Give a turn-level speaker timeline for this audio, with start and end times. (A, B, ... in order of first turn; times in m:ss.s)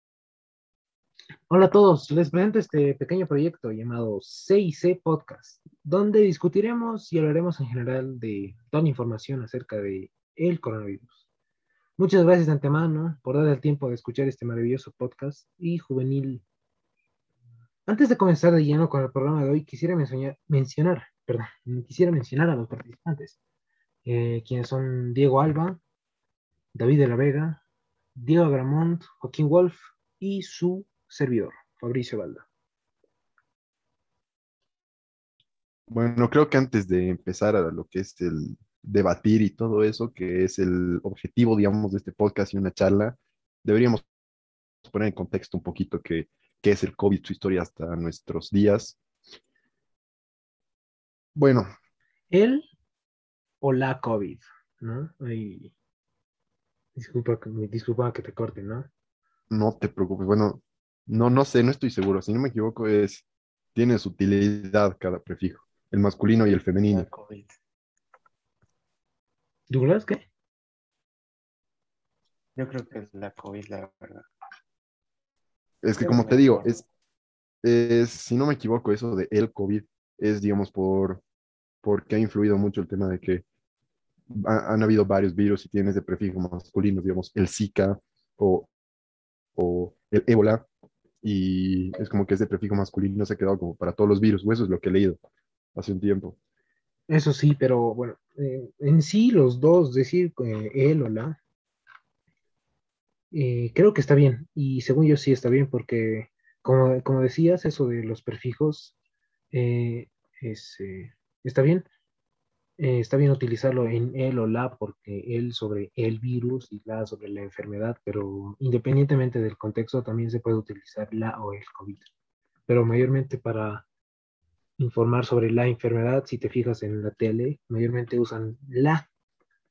0:01.5-0:11.2 A
0:12.0-0:16.4 A
0:17.9-0:23.4 A
0:24.0-0:25.8 A
0:26.7-0:27.6 A
0:28.2-0:32.5 A
0:35.9-0:44.0 B
0:44.8-0:49.0 B
0:51.4-0:51.7 B
0:52.3-0:52.7 A
0:53.6-0:55.7 A
0:57.0-0:58.9 A
0:59.5-1:07.1 B
1:06.9-1:07.5 C
1:09.7-1:10.2 A
1:12.6-1:14.2 C
1:15.8-1:16.8 B
1:16.0-1:16.8 C
1:17.6-1:21.2 B
1:21.8-1:23.4 B
1:24.3-1:28.7 B
1:29.6-1:30.6 B
1:31.2-1:35.2 B
1:35.8-1:36.4 B
1:37.1-1:41.4 A
1:43.3-1:48.9 A
1:49.5-1:51.9 A
1:52.8-2:02.1 A
2:02.7-2:03.8 A
2:04.8-2:09.1 A